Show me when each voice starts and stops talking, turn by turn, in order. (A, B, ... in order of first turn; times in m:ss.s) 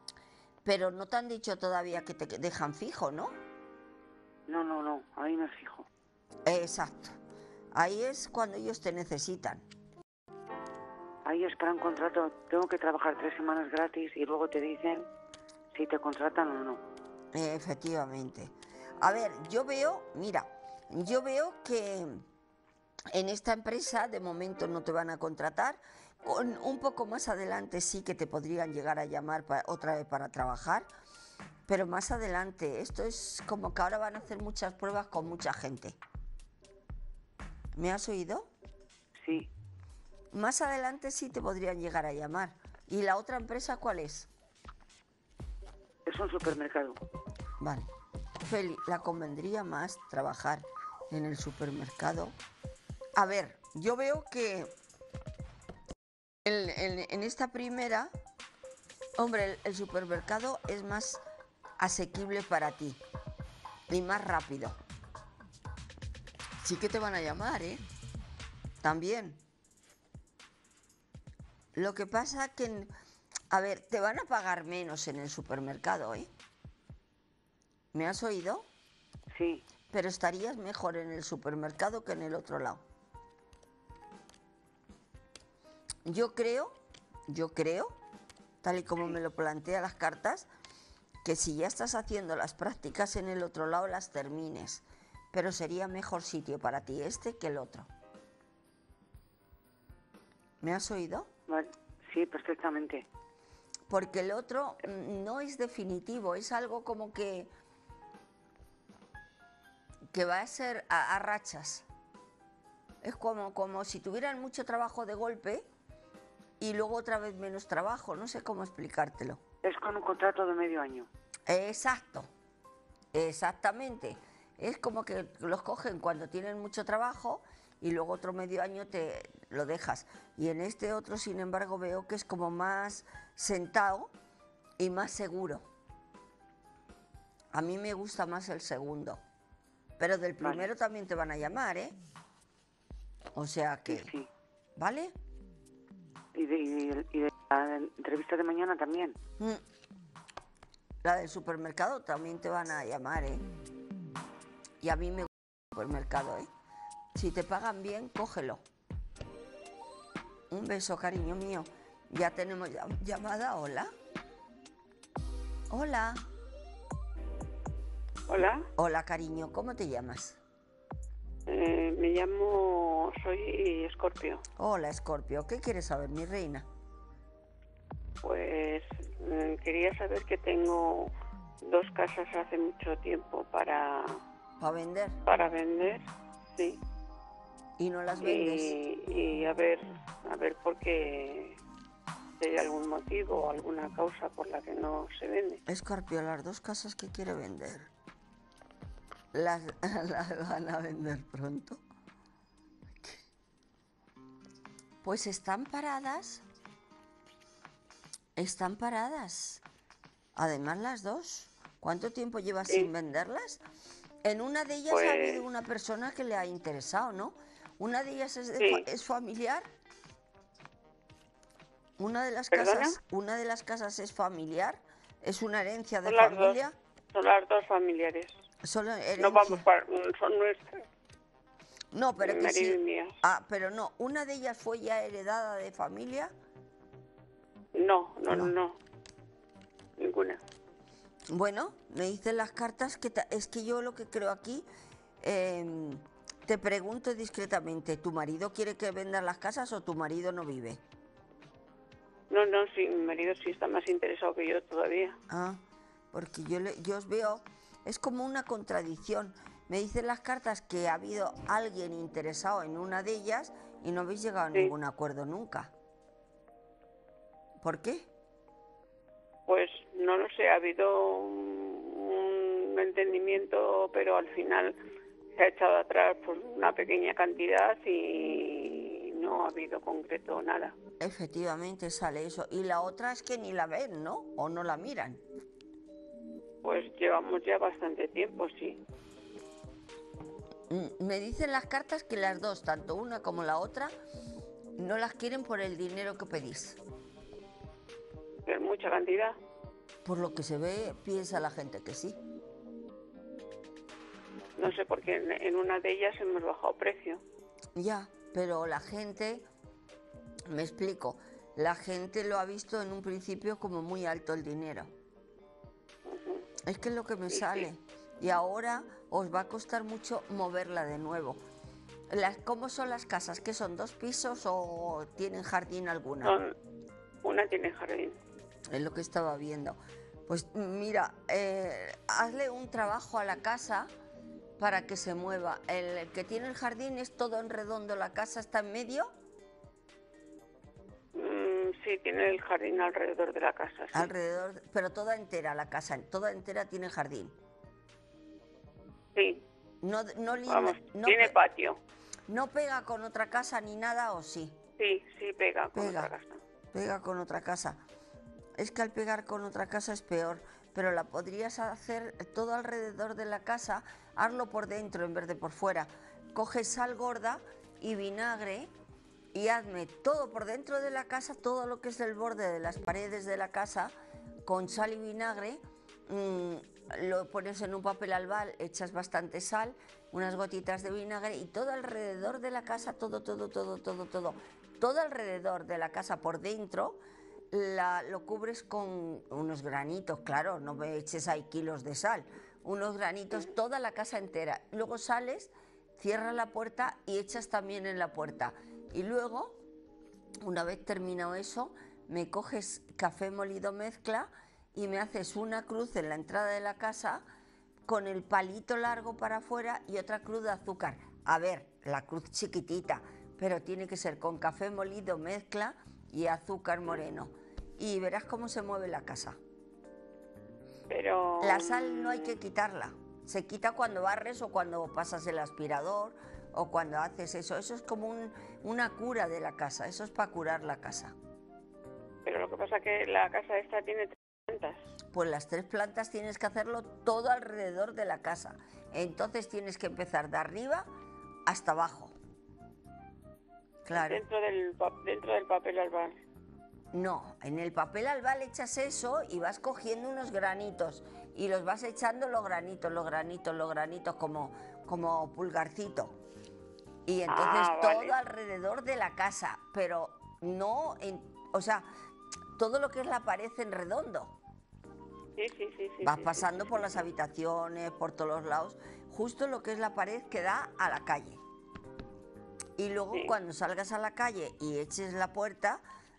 0:00.6-0:03.4 A
0:04.5-0:05.9 B
0:06.5-0:07.2 A
0:07.7-0:09.6 A
0:11.2-0:15.1 B
0:15.7-0:16.8 B
0:17.3-0:22.3 A
0:23.1-0:30.9 A
0:31.7-0:36.0 A
0:37.8-0:38.5 A
0:39.2-0:39.5 B
0:40.3-0:44.3 A
0:46.1-0:47.0 B
0:47.6-0:47.9 A
0:48.4-0:52.4 A
0:53.2-0:54.7 A
0:56.4-0:58.1 A
0:59.2-1:01.2 A
1:01.8-1:03.0 A
1:03.9-1:04.8 A
1:06.6-1:07.8 A
1:08.8-1:09.4 A
1:11.8-1:12.9 A
1:13.5-1:16.3 A
1:17.9-1:18.7 A
1:19.3-1:19.6 B
1:19.9-1:22.8 A
1:26.1-1:26.8 A
1:27.3-1:28.0 A
1:28.6-1:30.5 A
1:31.2-1:37.9 A
1:40.6-1:41.3 A
1:41.5-1:43.0 B
1:43.9-1:47.5 A
1:50.1-1:51.9 A
1:53.0-1:55.7 A
1:56.6-1:59.4 A
1:59.6-2:01.1 B
2:01.5-2:02.3 A
2:03.1-2:14.1 A
2:14.8-2:15.6 A
2:17.5-2:19.2 A
2:20.0-2:22.0 A
2:20.4-2:20.7 B
2:23.4-2:24.1 A
2:23.9-2:24.3 B
2:24.8-2:25.1 A
2:26.3-2:29.2 B
2:31.0-2:33.4 A
2:34.8-2:36.5 A
2:37.2-2:38.6 A
2:40.5-2:43.9 A
2:45.7-2:46.3 A
2:48.3-2:48.7 C
2:48.8-2:50.4 A
2:51.5-2:54.4 C
2:54.6-2:56.7 A
2:58.2-3:01.1 C
3:01.6-3:04.2 C
3:04.6-3:05.2 A
3:05.3-3:06.8 C
3:07.8-3:08.7 A
3:08.2-3:11.6 C
3:12.4-3:15.6 C
3:15.7-3:17.9 A
3:19.3-3:21.8 A
3:25.0-3:26.4 A
3:28.4-3:29.6 A
3:30.4-3:33.6 A
3:34.2-3:39.7 A
3:34.9-3:35.4 C
3:38.6-3:38.8 C
3:42.0-3:46.8 A
3:42.5-3:43.0 C
3:46.0-3:46.6 C
3:47.1-3:48.3 C
3:48.6-3:49.6 A
3:49.2-3:50.8 C
3:51.9-3:56.3 A
3:52.2-3:53.2 C
3:57.8-3:58.8 C
4:00.0-4:00.4 C
4:01.3-4:04.7 A
4:05.2-4:10.8 A
4:12.3-4:15.2 C
4:15.3-4:25.7 A
4:27.6-4:28.1 A
4:29.5-4:34.8 C
4:35.4-4:40.7 C
4:41.0-4:45.2 A
4:46.6-4:48.8 C
4:50.7-4:53.9 A
4:54.8-4:56.8 A
4:58.5-4:59.4 C
5:00.0-5:02.2 A
5:04.6-5:07.2 C
5:07.8-5:09.5 A
5:10.5-5:14.9 A
5:16.1-5:16.4 C
5:16.6-5:21.4 A
5:17.3-5:17.7 C
5:22.1-5:26.4 A
5:26.2-5:26.5 C
5:27.2-5:28.2 C
5:28.7-5:33.9 A
5:34.6-5:39.1 A
5:41.2-5:44.1 C
5:43.9-5:47.4 A
5:49.2-5:49.4 C
5:49.8-5:51.4 A
5:50.5-5:51.8 C
5:52.3-5:54.6 A
5:54.8-5:56.4 C
5:55.7-5:56.1 A
5:56.7-5:57.8 A
5:58.6-6:08.7 A
6:09.3-6:13.9 A
6:14.4-6:27.0 A
6:27.5-6:39.6 A
6:40.4-6:47.2 A
6:47.9-6:59.4 A
7:00.9-7:02.3 C
7:01.4-7:11.1 A
7:12.2-7:14.8 C
7:15.1-7:20.9 A
7:21.5-7:22.2 A
7:23.8-7:24.2 A
7:23.9-7:26.2 C
7:26.9-7:36.2 A
7:37.1-7:41.9 A
7:37.3-7:38.2 C
7:42.6-7:44.4 A
7:45.4-7:46.6 C
7:46.0-7:51.4 A
7:52.8-7:55.8 A